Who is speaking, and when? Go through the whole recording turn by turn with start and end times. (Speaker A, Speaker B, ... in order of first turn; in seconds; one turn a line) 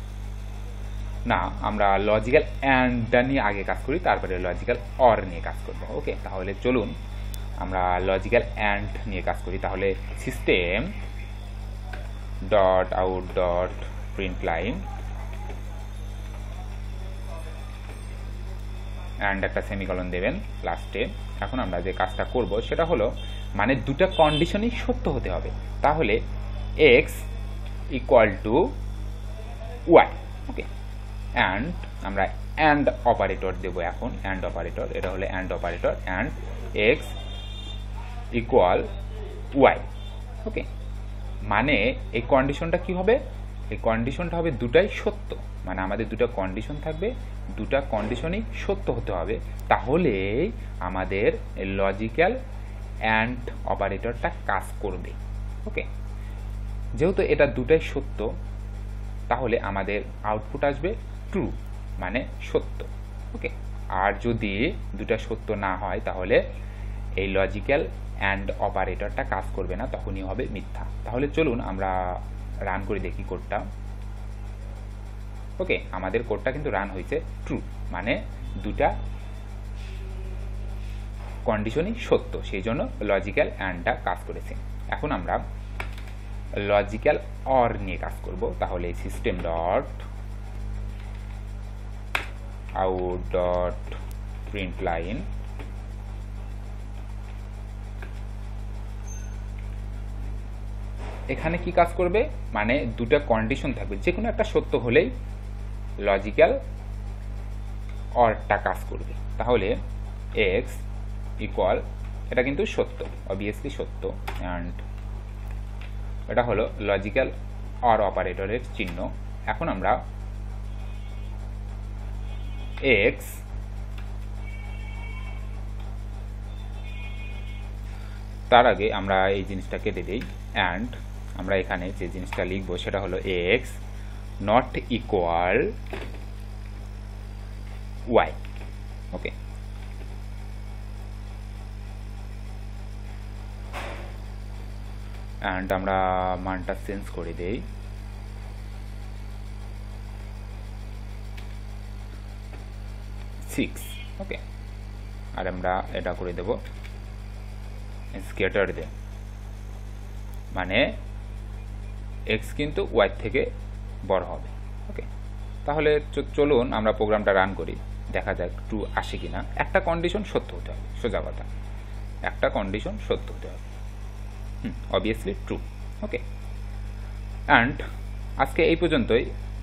Speaker A: 1.3-7.0
Speaker A: 7.6-11.0
Speaker A: 12.5-14.8
Speaker A: 19.2-26.2
Speaker A: 26.8-27.2
Speaker A: 27.9-28.7
Speaker A: 29.9-30.7
Speaker A: 31.4-37.1
Speaker A: 38.3-38.9
Speaker A: 39.5-39.9
Speaker A: 41.5-43.2
Speaker A: 43.7-52.4
Speaker A: 53.1-55.9
Speaker A: 57.0-58.3
Speaker A: 59.3-66.4
Speaker A: 67.2-73.7
Speaker A: 75.6-78.9
Speaker A: 81.5-85.4
Speaker A: 86.6-90.0
Speaker A: 92.8-95.2
Speaker A: 101.3-105.1
Speaker A: 106.0-106.6
Speaker A: 108.2-109.7
Speaker A: 110.4-110.8
Speaker A: 111.4-114.8
Speaker A: 116.3-117.3
Speaker A: 117.9-120.0
Speaker A: 122.8-123.4
Speaker A: 128.5-133.8
Speaker A: 134.4-135.7
Speaker A: 138.1-138.4
Speaker A: 145.4-147.6
Speaker A: 153.5-154.4
Speaker A: 155.4-156.6
Speaker A: 158.2-158.9
Speaker A: 160.5-160.9
Speaker A: 162.3-163.5
Speaker A: 164.1-165.1
Speaker A: 165.7-171.5
Speaker A: 172.3-173.6
Speaker A: 174.6-176.2
Speaker A: 177.5-177.8
Speaker A: 178.4-179.3